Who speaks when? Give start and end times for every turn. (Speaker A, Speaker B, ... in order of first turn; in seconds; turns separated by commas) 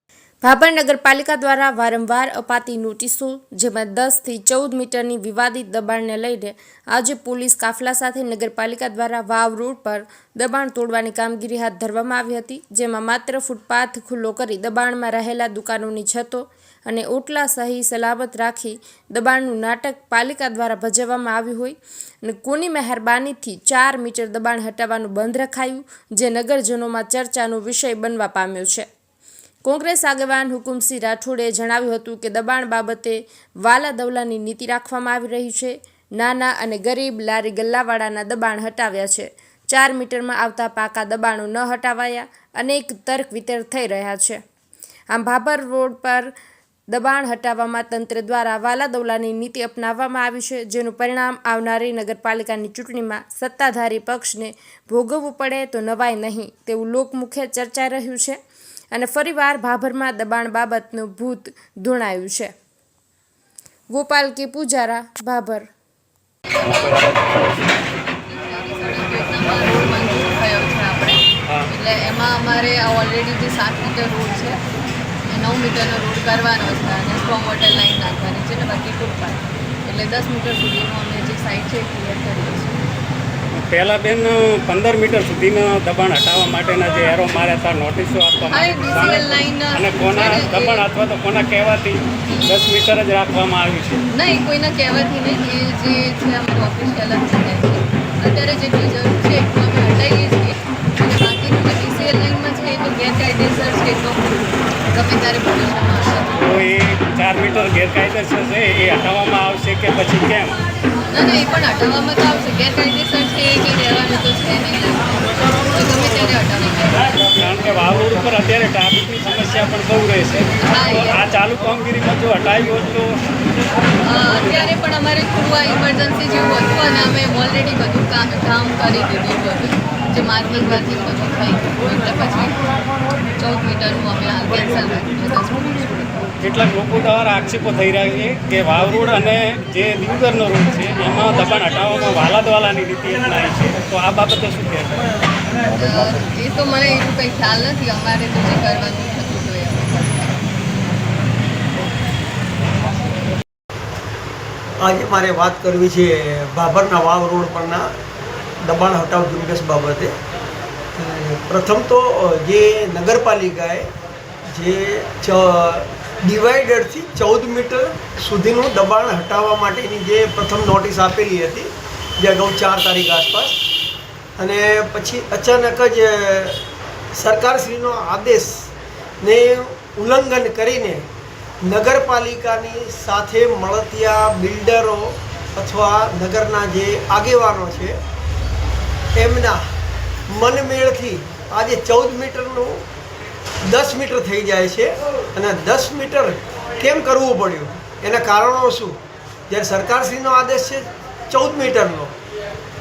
Speaker A: 0.4-28.9, Speaker A: 29.6-44.4, Speaker A: 45.1-46.3, Speaker A: 46.9-58.4, Speaker A: 58.9-62.5, Speaker A: 63.9-65.7, Speaker B: 66.6-67.5, Speaker B: 68.0-74.6, Speaker B: 75.3-82.8, Speaker C: 83.5-94.0, Speaker B: 88.5-90.9, Speaker B: 94.1-106.5, Speaker C: 106.3-110.6, Speaker B: 111.1-117.3, Speaker C: 117.4-123.2, Speaker B: 120.6-121.2, Speaker B: 124.0-132.6, Speaker B: 133.4-136.3, Speaker C: 136.4-145.1, Speaker B: 145.7-150.5, Speaker D: 154.8-157.9, Speaker D: 158.6-160.2, Speaker D: 160.9-163.9, Speaker D: 164.5-173.6, Speaker D: 174.4-176.6, Speaker D: 177.1-178.7, Speaker D: 179.2-181.1, Speaker D: 181.6-188.0, Speaker D: 189.1-189.6, Speaker D: 190.3-192.8, Speaker D: 193.7-199.0, Speaker D: 199.5-202.2